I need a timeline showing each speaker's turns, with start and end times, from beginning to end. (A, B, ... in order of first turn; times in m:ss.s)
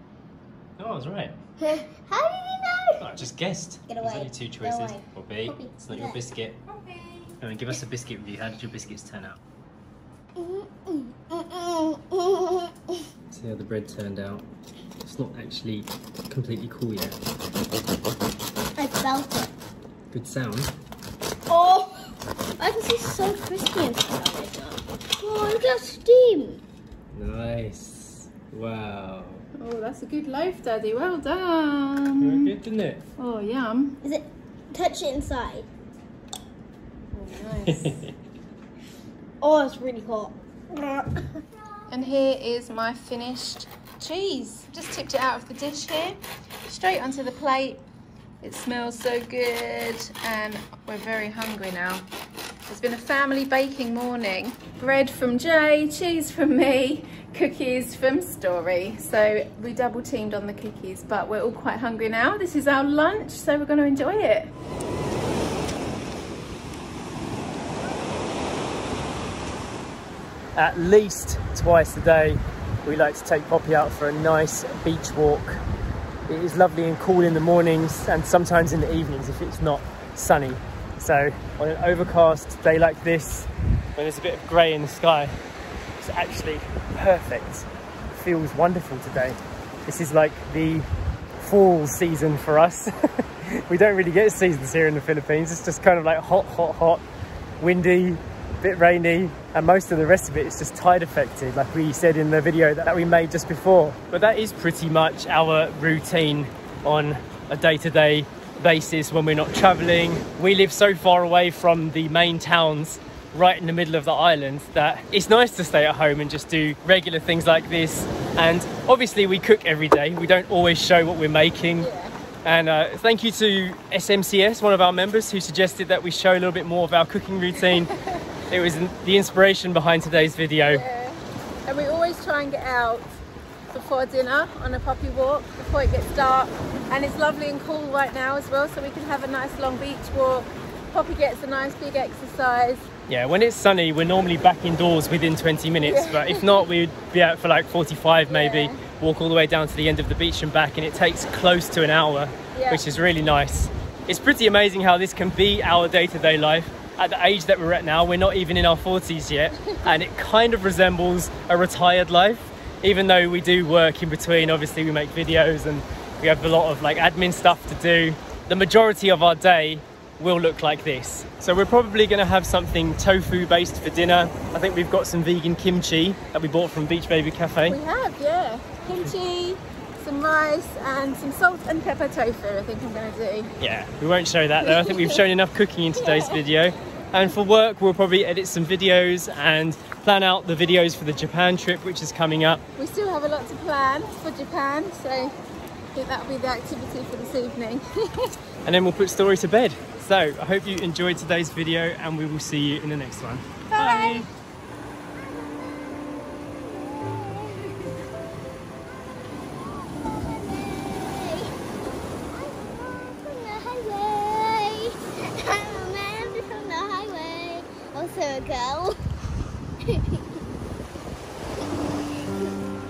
0:00.8-0:01.4 A
0:01.6-0:03.2 B
0:03.0-0:06.6 A
0:03.9-0:06.2 B
0:06.7-0:07.3 C
0:07.4-0:09.4 A
0:10.4-0:13.0 B
0:13.3-0:14.5 A
0:15.0-0:17.2 A
0:18.8-0:19.5 B
0:20.1-0:20.8 A
0:21.5-0:26.6 B
0:27.1-0:29.4 A
0:29.6-0:32.5 C
0:32.2-0:33.0 A
0:33.2-0:34.0 C
0:34.0-0:35.7 B
0:37.1-0:38.1 C
0:37.7-0:38.2 A
0:39.4-0:41.4 B
0:41.9-0:47.8 C
0:48.4-0:52.1 C
0:52.7-1:04.5 C
1:10.6-1:15.6 A
1:16.3-1:25.4 A
1:26.0-1:37.0 A
1:37.6-2:01.9 A
2:01.8-2:02.2 C
2:02.4-2:07.9 A
2:08.4-2:10.8 A
2:10.7-2:13.1 C
2:13.7-2:22.9 C
2:23.1-2:57.8 A
2:25.8-2:26.6 C
2:28.4-2:28.7 C
2:32.6-2:32.8 C
2:57.7-3:03.6 C
3:03.6-3:12.6 A
3:04.6-3:05.2 C
3:12.8-3:15.4 C
3:15.9-3:18.4 C
3:18.6-3:24.3 A
3:23.7-3:24.2 C
3:24.0-3:24.3 B
3:25.1-3:27.7 B
3:28.7-3:31.5 B
3:32.3-3:39.0 B
3:39.9-3:40.2 B